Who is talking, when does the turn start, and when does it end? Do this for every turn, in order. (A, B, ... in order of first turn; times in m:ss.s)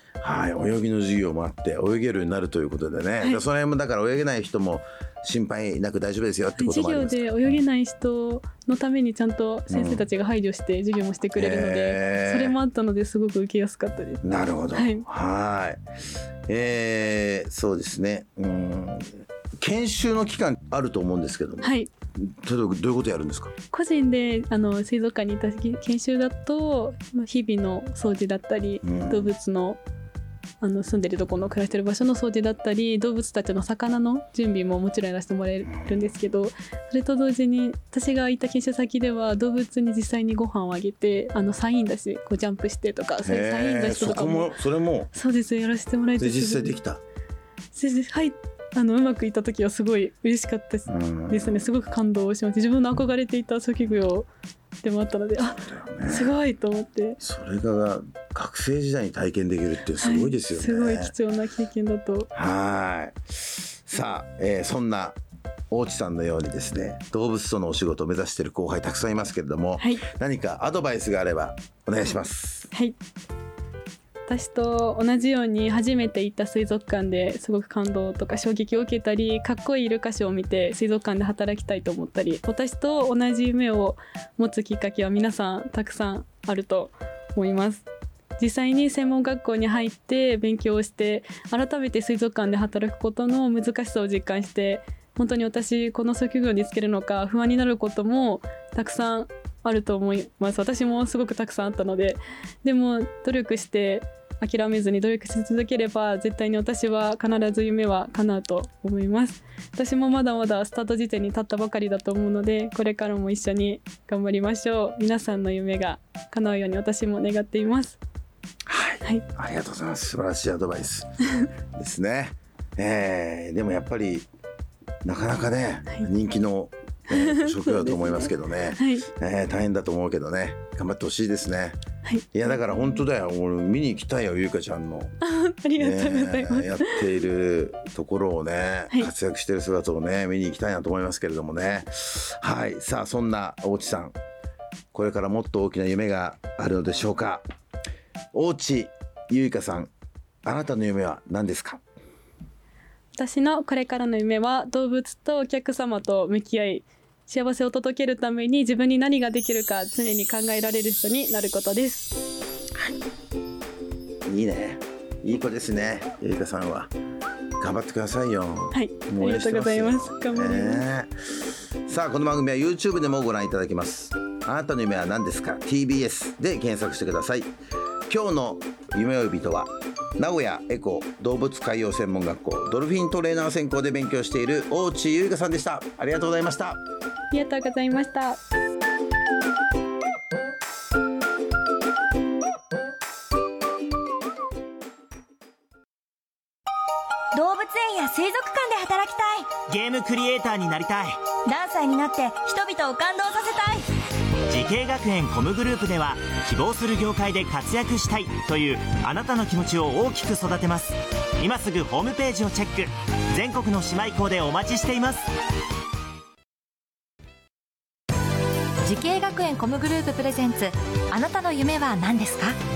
0:00.2-0:07.3 A
0:06.6-0:14.2 B
0:09.7-0:10.0 A
0:11.4-0:12.6 A
0:14.2-0:15.8 A
0:14.7-0:15.0 B
0:16.5-0:23.5 A
0:21.6-0:21.9 B
0:23.7-0:29.8 B
0:28.8-0:29.3 A
0:30.6-0:44.5 B
0:43.2-0:45.1 A
0:45.1-0:46.8 B
0:46.2-0:47.0 A
0:47.7-0:54.3 B
0:50.9-0:51.6 A
0:54.8-0:57.2 B
0:55.4-0:56.4 A
0:57.2-1:01.1 A
1:00.0-1:02.3 B
1:02.3-1:05.2 A
1:05.7-1:12.7 A
1:12.7-1:13.0 B
1:14.3-1:27.9 B
1:28.4-1:58.0 B
1:58.7-2:01.1 A
2:01.7-2:04.3 A
2:05.0-2:11.8 A
2:07.1-2:09.1 B
2:12.0-2:12.9 B
2:12.3-2:15.1 A
2:15.2-2:17.0 B
2:15.8-2:24.1 A
2:24.9-2:27.4 A
2:28.3-2:29.9 A
2:30.4-2:31.8 A
2:33.1-2:42.2 B
2:44.2-2:46.9 A
2:47.6-2:51.1 A
2:48.7-2:50.9 B
2:51.8-2:57.5 A
2:58.1-3:06.8 A
3:07.3-3:08.4 B
3:17.3-3:19.6 C
3:19.7-3:21.2 D
3:21.4-3:23.9 C
3:24.5-3:35.2 D
3:38.8-3:42.5 E